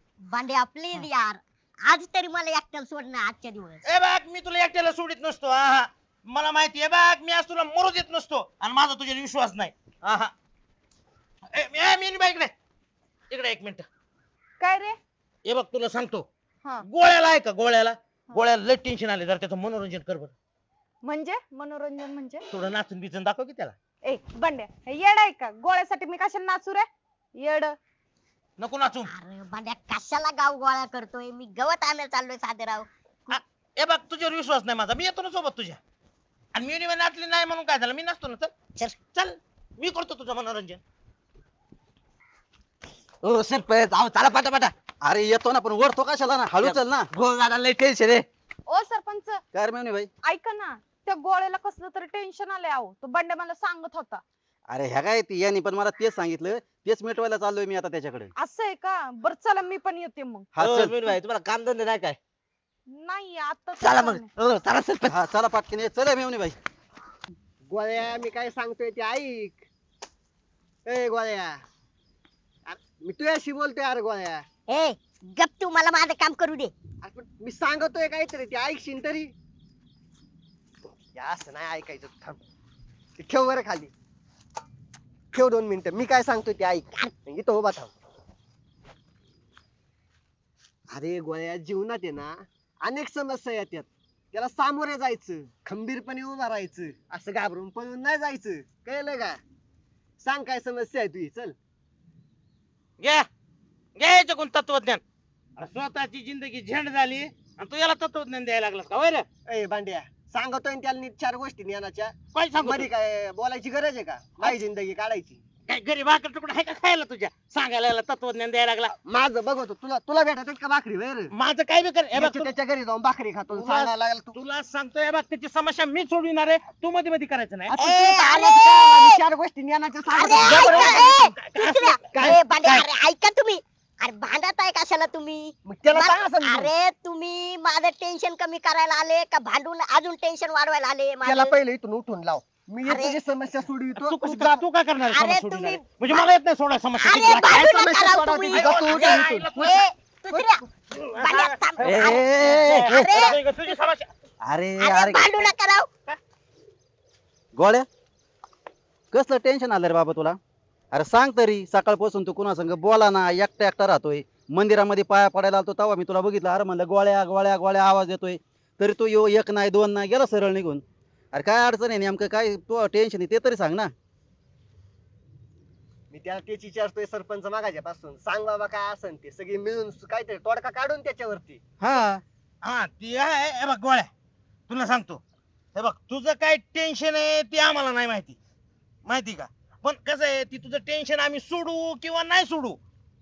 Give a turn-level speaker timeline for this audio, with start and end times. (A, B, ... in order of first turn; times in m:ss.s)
0:00.3-0:03.8 A
0:03.8-0:10.3 B
0:11.5-0:12.5 B
0:13.3-0:13.9 B
0:14.6-0:15.0 C
0:15.4-0:16.2 B
0:16.8-0:20.3 B
0:21.0-0:22.4 C
0:22.5-0:23.7 B
0:24.1-0:26.9 C
0:27.4-0:27.7 C
0:28.6-0:29.1 B
0:29.1-0:32.9 A
0:33.3-0:35.8 B
0:36.5-0:38.5 B
0:39.1-0:40.8 B
0:43.2-0:44.7 D
0:45.0-0:47.1 E
0:46.6-0:48.2 D
0:48.7-0:49.4 C
0:49.5-0:50.1 E
0:50.3-0:54.2 C
0:54.7-0:58.3 E
0:58.4-1:00.5 C
1:00.6-1:01.0 E
1:00.6-1:02.2 D
1:02.9-1:04.3 C
1:03.8-1:05.1 D
1:05.1-1:06.6 E
1:07.7-1:09.6 F
1:10.9-1:11.6 F
1:12.6-1:14.4 F
1:14.7-1:16.7 A
1:17.0-1:19.3 F
1:21.1-1:22.4 F
1:23.2-1:23.9 F
1:25.3-1:27.9 F
1:30.9-1:39.4 F
1:40.2-1:41.6 F
1:43.0-1:43.2 B
1:44.0-1:45.0 B
1:45.6-1:49.2 B
1:49.5-1:55.4 F
1:52.3-1:52.9 B
1:55.7-1:58.9 B
1:59.1-2:01.3 F
2:01.4-2:02.5 B
2:02.1-2:04.4 F
2:03.5-2:07.7 B
2:07.7-2:11.3 F
2:07.8-2:09.2 A
2:10.1-2:21.6 A
2:10.4-2:12.9 B
2:15.6-2:16.7 F
2:21.2-2:24.6 F
2:22.8-2:23.2 A
2:24.0-2:27.7 B
2:25.1-2:26.3 A
2:27.0-2:33.4 A
2:27.1-2:29.5 F
2:28.5-2:29.8 B
2:30.9-2:34.1 B
2:31.8-2:33.3 E
2:34.4-2:35.2 E
2:34.8-2:35.9 A
2:37.5-2:37.9 E
2:39.1-2:40.4 E
2:40.9-2:50.8 E
2:51.3-2:53.9 E
2:56.1-3:01.6 F
3:01.8-3:02.2 E
3:02.6-3:04.1 B
3:04.7-3:05.2 B
3:05.7-3:08.4 B
3:09.1-3:12.8 B